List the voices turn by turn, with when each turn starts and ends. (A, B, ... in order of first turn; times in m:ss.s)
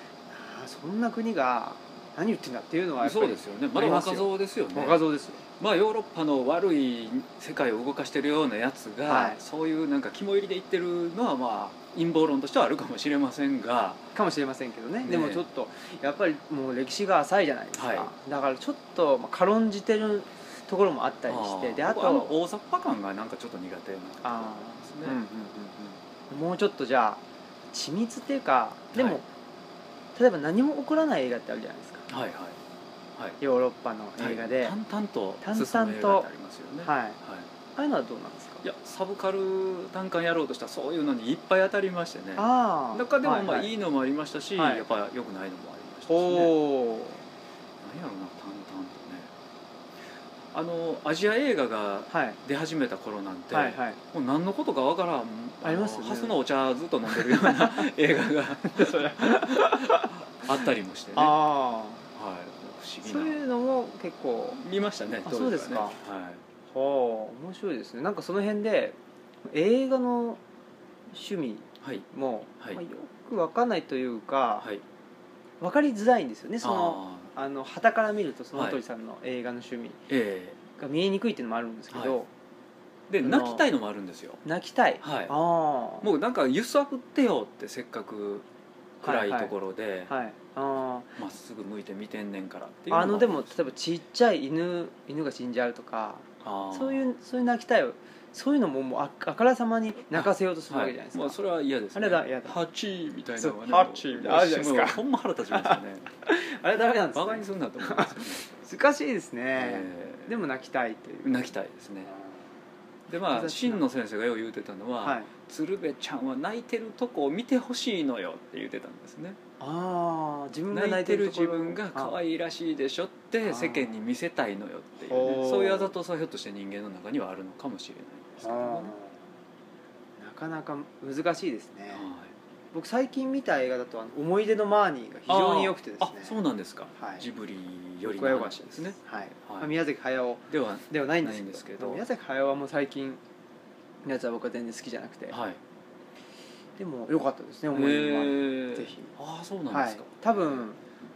0:00.3-0:05.4 A
0:03.0-0:14.1 B
0:09.0-0:09.4 A
0:14.1-0:22.4 A
0:15.0-0:15.4 B
0:17.7-0:18.1 B
0:21.3-0:25.2 B
0:24.2-0:27.2 A
0:27.7-0:29.2 A
0:28.9-0:29.2 B
0:30.2-0:32.1 A
0:32.1-0:32.6 B
0:33.4-0:34.7 A
0:34.2-0:37.5 B
0:35.4-0:36.3 A
0:36.8-0:37.2 A
0:37.8-0:38.6 A
0:38.6-0:46.5 B
0:42.4-0:43.7 A
0:44.6-0:44.8 A
0:46.1-0:47.2 A
0:47.8-0:49.3 B
0:50.5-1:01.4 B
0:52.1-0:52.4 A
0:53.5-0:54.0 A
0:55.6-0:56.4 A
0:57.1-0:57.9 A
0:58.6-1:00.6 A
1:01.1-1:02.1 A
1:02.1-1:03.4 B
1:03.0-1:04.6 A
1:04.6-1:06.4 B
1:05.2-1:06.0 A
1:06.7-1:09.0 A
1:09.5-1:10.4 A
1:11.1-1:14.6 A
1:11.8-1:12.0 B
1:15.6-1:20.0 A
1:16.6-1:17.3 B
1:18.5-1:18.8 B
1:20.1-1:20.6 B
1:20.8-1:22.3 A
1:21.9-1:22.2 B
1:23.1-1:24.4 B
1:23.2-1:23.6 A
1:24.4-1:26.1 A
1:25.0-1:25.3 B
1:26.0-1:28.4 B
1:29.0-1:30.1 B
1:29.0-1:29.5 A
1:30.1-1:31.1 A
1:31.2-1:33.6 B
1:32.9-1:41.4 A
1:36.4-1:37.0 B
1:40.1-1:46.1 B
1:41.9-1:42.6 A
1:43.4-1:51.5 A
1:47.1-1:48.4 B
1:49.6-1:50.3 B
1:51.2-1:52.1 B
1:53.1-1:59.4 B
1:53.3-1:53.8 A
1:55.0-1:55.3 A
1:59.6-2:02.1 A
2:00.7-2:08.9 B
2:03.4-2:04.0 A
2:05.1-2:05.9 A
2:08.4-2:09.2 A
2:10.2-2:12.1 A
2:11.9-2:12.3 B
2:12.7-2:16.4 A
2:15.3-2:19.7 B
2:17.0-2:17.2 A
2:18.0-2:23.2 A
2:20.5-2:22.0 B
2:24.0-2:25.4 A
2:25.3-2:25.6 B
2:26.8-2:29.1 A
2:27.7-2:30.6 B
2:29.7-2:30.8 A